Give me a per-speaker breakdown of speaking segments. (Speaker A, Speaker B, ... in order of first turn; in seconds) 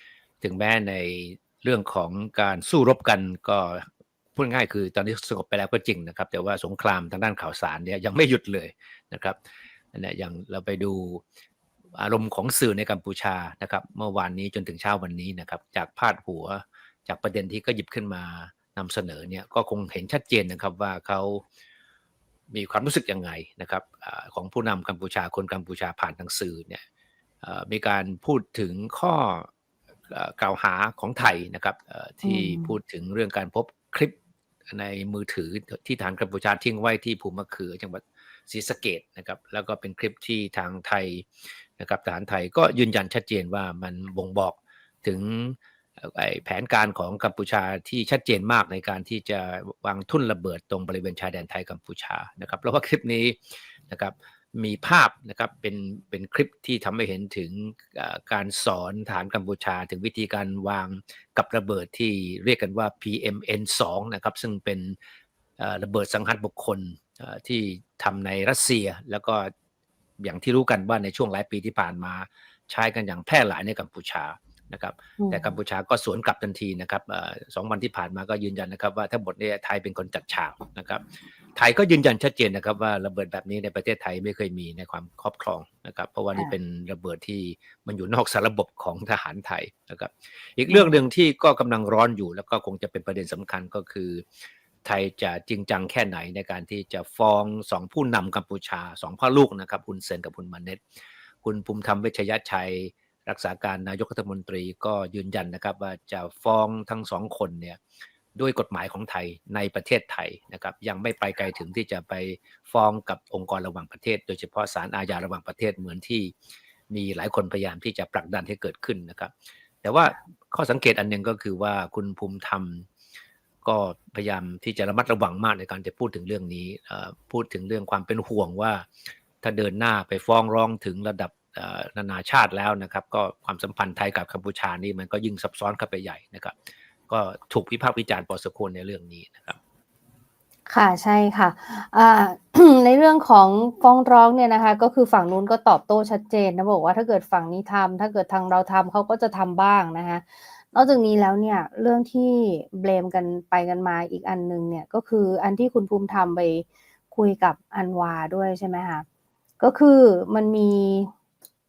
Speaker A: 0.4-9.4, 9.9-11.2, 12.0-21.4, 22.5-26.8, 27.4-29.5, 30.1-34.1, 34.7-65.0, 65.6-69.5, 70.2-81.0, 81.5-94.3, 94.8-100.8, 101.4-107.8, 108.4-116.3, 116.9-122.9, 123.6-136.6, 137.1-139.6
Speaker B: 32.2-32.7, 75.2-75.5, 90.7-91.0, 140.7-159.1, 159.6-161.1